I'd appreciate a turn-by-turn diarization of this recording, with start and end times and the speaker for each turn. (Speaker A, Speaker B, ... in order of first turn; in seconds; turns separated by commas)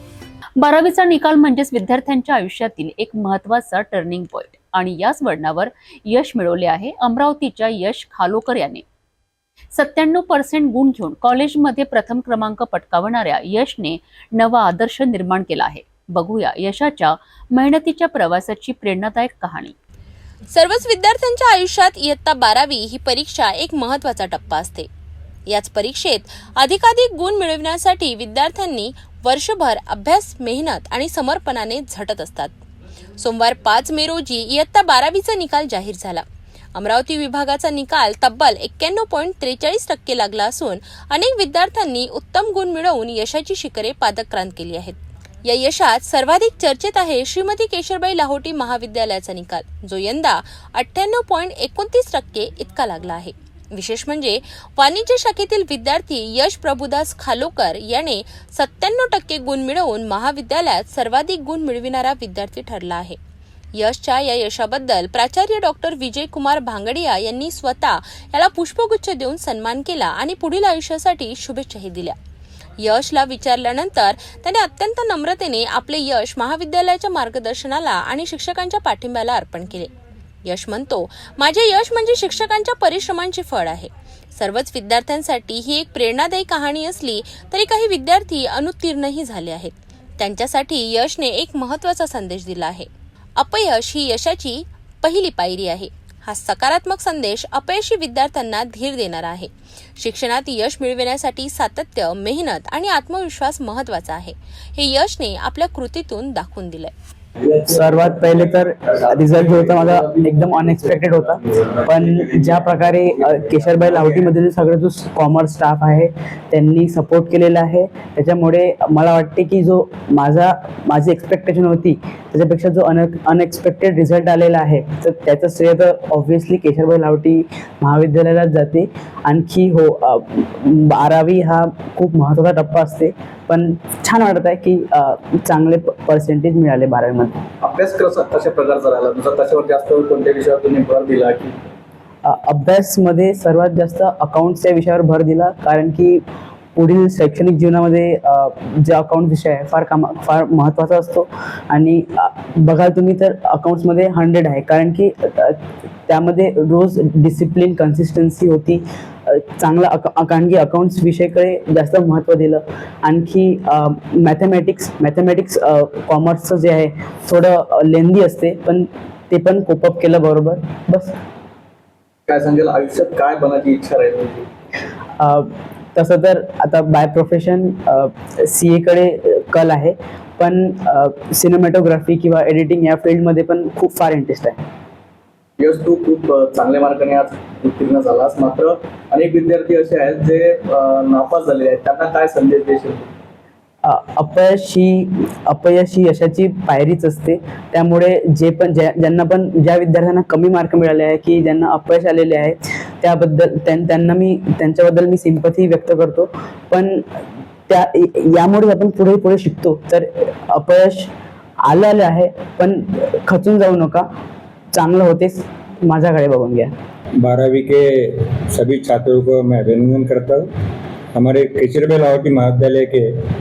Speaker A: 0.6-8.8, Speaker A: 9.7-19.7, Speaker B: 20.5-24.9, Speaker B: 25.5-32.6, Speaker B: 33.2-36.2, Speaker B: 36.7-63.2, Speaker B: 63.8-72.1, Speaker B: 72.8-79.9, Speaker B: 80.4-106.9, Speaker C: 107.7-137.4, Speaker D: 109.5-111.1, Speaker E: 112.4-114.2, Speaker D: 137.6-141.7, Speaker C: 142.2-146.2, Speaker C: 146.7-171.1, Speaker D: 172.3-174.5, Speaker C: 175.2-184.6, Speaker D: 185.6-193.1, Speaker C: 193.8-207.1, Speaker C: 207.7-211.1, Speaker C: 211.7-214.1, Speaker C: 214.7-216.7, Speaker E: 217.2-220.5, Speaker E: 221.1-223.1